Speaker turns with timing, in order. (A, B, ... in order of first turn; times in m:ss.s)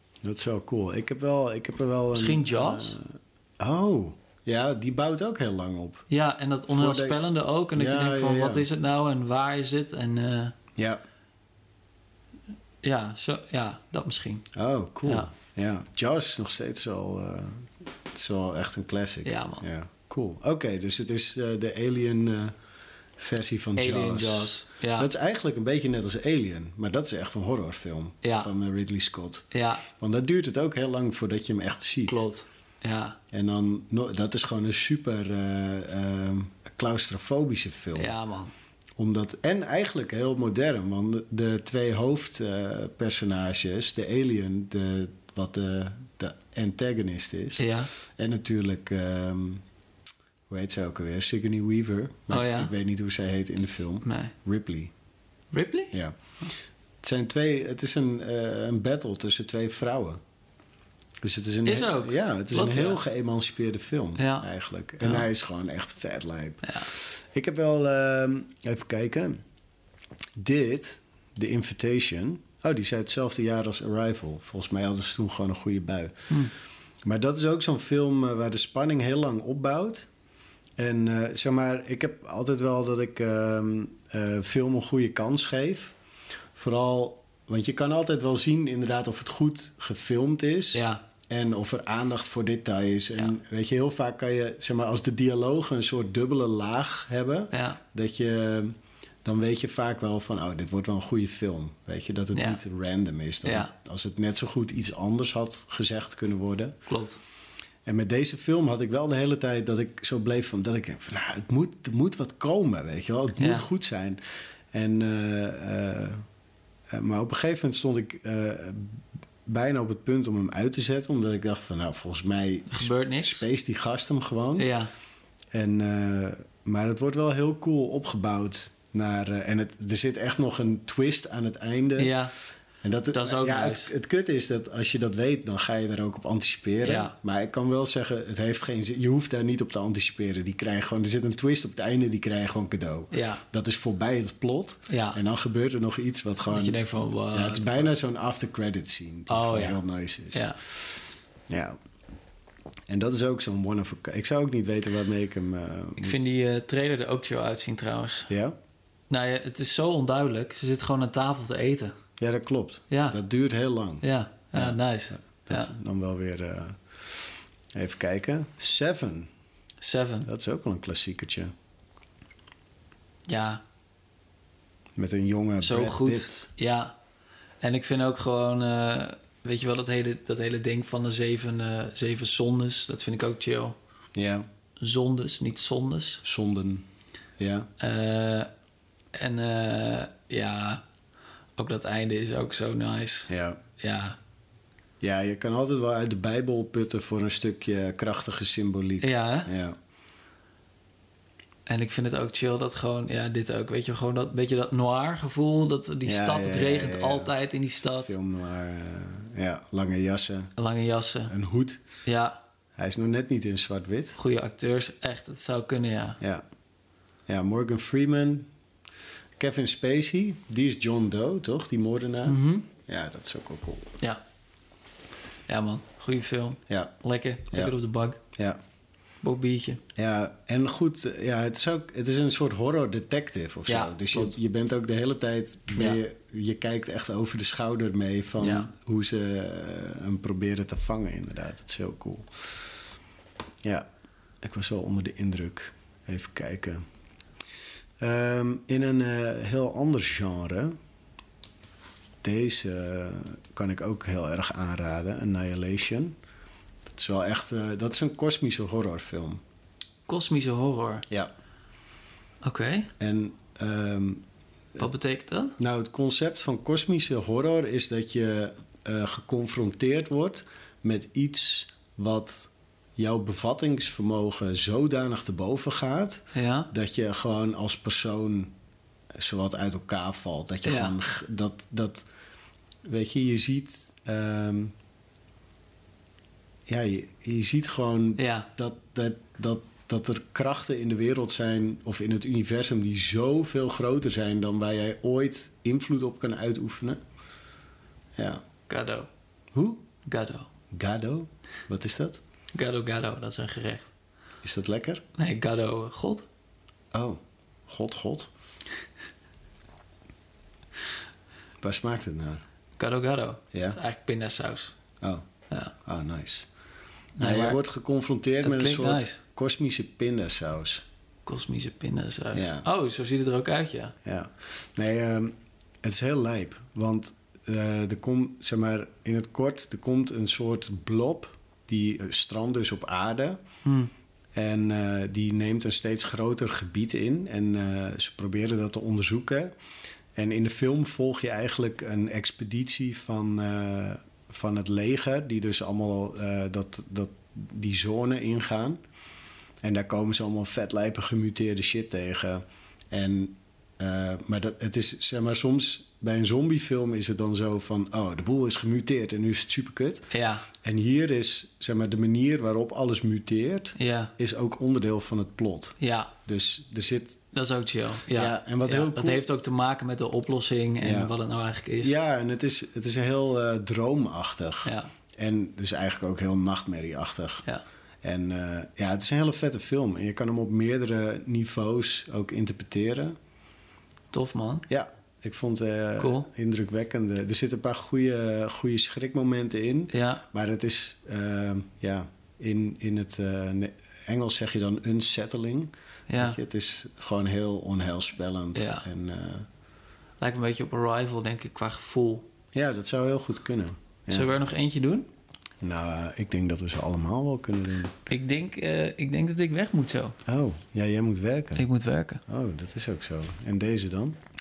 0:00.2-0:06.0 A
0:02.1-0:03.0 B
0:06.1-0:10.5 B
0:06.7-0:07.2 A
0:07.7-0:08.6 A
0:10.8-0:11.0 A
0:12.8-0:14.5 B
0:14.5-0:22.5 A
0:15.0-0:15.3 B
0:19.2-0:19.6 B
0:23.2-0:32.2 A
0:23.8-0:25.1 B
0:28.2-0:28.5 B
0:29.5-0:29.8 B
0:32.1-0:33.2 B
0:33.3-0:38.1 A
0:37.9-0:38.5 B
0:39.0-0:49.6 A
0:47.6-0:47.9 B
0:50.5-0:54.9 A
0:52.3-0:52.7 B
0:54.0-0:54.3 B
0:55.5-0:56.5 B
0:57.0-1:00.2 A
1:01.2-1:09.4 A
1:01.6-1:03.0 B
1:04.2-1:04.5 B
1:05.0-1:05.3 B
1:06.6-1:06.9 B
1:10.4-1:16.3 A
1:17.0-1:20.1 A
1:20.8-1:25.9 A
1:26.5-1:46.8 A
1:30.7-1:31.0 B
1:37.5-1:37.8 B
1:42.3-1:42.6 B
1:43.4-1:43.7 B
1:46.9-1:47.2 B
1:47.8-1:54.2 A
1:53.4-1:53.6 B
1:54.7-1:56.2 A
1:56.9-2:04.7 A
2:02.7-2:03.4 B
2:04.6-2:04.9 B
2:05.5-2:12.2 A
2:12.0-2:12.3 B
2:12.8-2:26.8 A
2:13.1-2:13.9 B
2:16.8-2:17.1 B
2:23.1-2:23.4 B
2:24.9-2:25.2 B
2:26.5-2:27.9 B
2:27.3-2:31.0 A
2:29.3-2:30.6 B
2:31.5-2:31.8 A
2:32.9-2:36.2 A
2:36.0-2:38.3 B
2:39.1-2:42.0 B
2:42.2-2:49.3 A
2:42.9-2:43.2 B
2:44.0-2:45.7 B
2:49.8-2:50.3 B
2:50.2-2:51.5 A
2:53.3-2:53.6 B
2:55.0-2:56.5 A
2:55.6-2:56.9 B
2:57.6-3:03.7 B
3:04.1-3:04.4 A
3:04.8-3:06.2 B
3:06.2-3:06.8 A
3:07.4-3:07.7 A
3:07.8-3:08.5 B
3:09.1-3:10.8 B
3:11.6-3:14.2 B
3:13.3-3:13.6 A
3:15.0-3:19.8 A
3:19.0-3:19.5 B
3:21.7-3:28.1 B
3:26.0-3:27.3 A
3:28.0-3:30.5 A
3:30.6-3:31.3 B
3:31.3-3:31.8 A
3:32.0-3:32.4 B
3:32.8-3:34.2 A
3:34.2-3:36.2 B
3:37.3-3:38.5 A
3:39.4-3:43.9 A
3:42.2-3:42.7 B
3:45.5-3:48.2 B
3:49.2-3:49.8 B
3:49.9-4:02.5 A
3:53.7-3:54.4 B
3:58.4-3:58.7 B
4:04.4-4:06.8 A
4:08.0-4:10.8 A
4:12.2-4:16.1 A
4:16.9-4:19.4 A
4:20.1-4:21.0 B
4:22.4-4:22.9 B
4:23.0-4:24.2 A
4:24.8-4:25.6 B
4:25.6-4:38.5 A
4:36.3-4:36.7 B
4:39.1-4:42.0 A
4:40.6-4:40.9 B
4:42.8-4:44.7 A
4:46.7-4:57.0 A
4:48.2-4:48.5 B
4:58.2-4:58.4 A
4:58.7-4:59.1 B
4:59.5-4:59.8 A
5:00.0-5:00.5 B
5:00.7-5:02.2 A
5:02.5-5:03.9 B
5:04.4-5:05.0 A
5:05.2-5:06.2 B
5:06.9-5:08.3 A
5:11.6-5:12.4 A
5:12.8-5:14.7 B
5:13.5-5:13.8 A
5:15.8-5:16.5 A
5:17.2-5:17.6 B
5:17.2-5:20.8 A
5:18.4-5:19.2 B
5:21.2-5:23.9 B
5:22.3-5:22.6 A
5:24.0-5:33.4 A
5:33.6-5:33.9 B
5:34.3-5:39.5 A
5:40.2-5:48.8 A
5:49.6-6:07.2 A
6:00.1-6:00.5 B
6:03.8-6:04.1 B
6:05.8-6:06.1 B
6:07.3-6:11.9 B
6:08.1-6:09.2 A
6:10.8-6:11.1 A
6:11.8-6:17.4 A
6:14.6-6:14.9 B
6:18.0-6:23.1 A
6:24.1-6:24.6 B
6:24.7-6:39.5 A
6:26.0-6:26.3 B
6:29.9-6:30.2 B
6:36.1-6:36.4 B
6:38.5-6:38.8 B
6:40.2-6:42.3 B
6:42.5-6:44.3 A
6:44.1-6:45.1 B
6:45.6-6:48.0 A
6:48.1-6:50.2 B
6:50.2-6:51.6 A
6:51.6-6:52.2 B
6:52.3-6:54.2 A